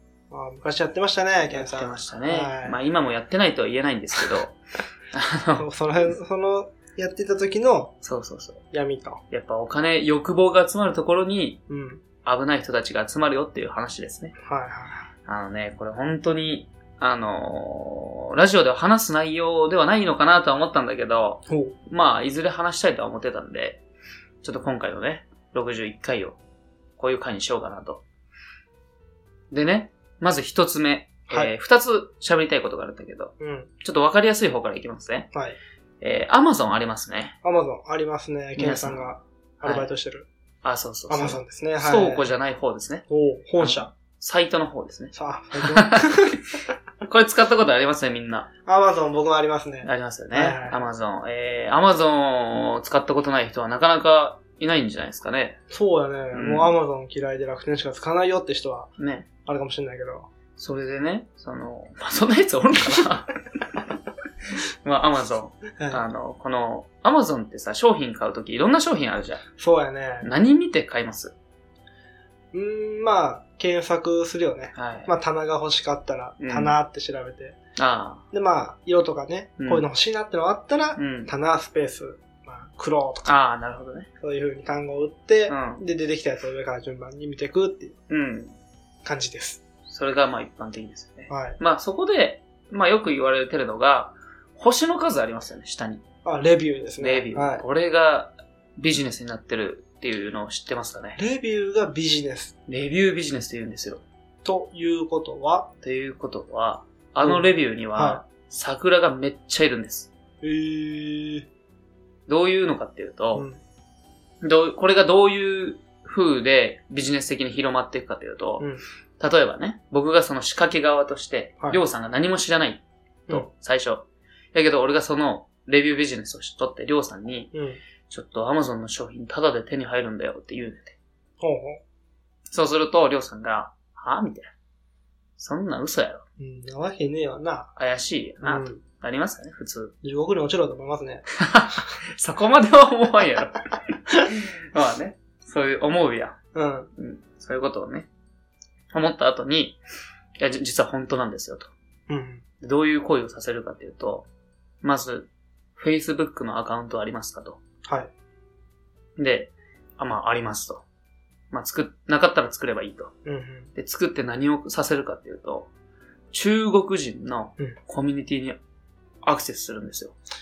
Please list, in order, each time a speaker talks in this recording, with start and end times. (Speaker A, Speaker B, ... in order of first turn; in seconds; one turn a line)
Speaker A: 0.3-2.8
Speaker B: 1.5-4.6
Speaker B: 5.1-5.7
Speaker A: 5.6-7.9
Speaker B: 8.0-8.6
Speaker A: 8.7-9.2
Speaker B: 9.3-11.6
Speaker A: 11.7-12.0
Speaker B: 12.2-14.3
Speaker A: 14.4-15.1
Speaker B: 15.3-23.8
Speaker A: 21.5-21.8
Speaker B: 24.4-26.4
Speaker B: 27.0-28.0
Speaker B: 29.5-35.3
Speaker A: 33.4-33.7
Speaker B: 36.0-37.4
Speaker A: 37.4-40.3
Speaker B: 38.6-39.1
Speaker B: 39.6-39.9
Speaker B: 40.6-43.1
Speaker A: 41.1-42.3
Speaker A: 43.1-43.9
Speaker B: 43.6-46.3
Speaker A: 45.1-46.5
Speaker B: 47.0-48.5
Speaker A: 48.7-50.9
Speaker B: 49.8-55.6
Speaker A: 55.7-58.9
Speaker B: 56.3-56.8
Speaker B: 59.0-59.3
Speaker A: 59.5-60.3
Speaker B: 60.6-63.9
Speaker B: 64.5-69.4
Speaker A: 65.8-66.0
Speaker A: 69.6-70.3
Speaker B: 70.2-71.3
Speaker A: 72.5-77.6
Speaker B: 74.8-75.1
Speaker B: 76.4-76.8
Speaker B: 77.8-78.2
Speaker A: 78.3-83.3
Speaker B: 79.6-79.9
Speaker B: 81.0-81.3
Speaker B: 83.3-84.1
Speaker A: 84.2-88.0
Speaker B: 85.5-85.8
Speaker B: 88.1-88.5
Speaker A: 89.0-89.6
Speaker B: 89.9-96.0
Speaker A: 91.3-91.6
Speaker A: 96.2-97.6
Speaker B: 97.0-101.2
Speaker A: 101.2-102.5
Speaker B: 102.7-104.0
Speaker A: 104.5-105.7
Speaker B: 105.8-110.1
Speaker A: 107.2-108.2
Speaker A: 110.4-111.5
Speaker B: 112.3-113.5
Speaker A: 113.3-113.6
Speaker B: 114.4-118.7
Speaker B: 119.2-127.5
Speaker A: 127.5-127.8
Speaker B: 128.1-131.0
Speaker A: 131.4-131.8
Speaker B: 132.5-134.5
Speaker B: 135.4-136.2
Speaker A: 136.4-137.7
Speaker B: 137.8-139.9
Speaker A: 138.4-138.8
Speaker A: 140.0-141.2
Speaker B: 141.4-143.7
Speaker B: 144.3-146.4
Speaker A: 146.5-146.9
Speaker B: 147.0-148.1
Speaker B: 148.9-149.8
Speaker B: 150.4-151.7
Speaker A: 152.1-152.4
Speaker B: 152.6-154.3
Speaker B: 154.8-157.6
Speaker B: 159.2-160.8
Speaker B: 161.5-163.1
Speaker A: 163.2-163.7
Speaker B: 163.8-165.7
Speaker B: 166.3-168.6
Speaker B: 169.2-170.2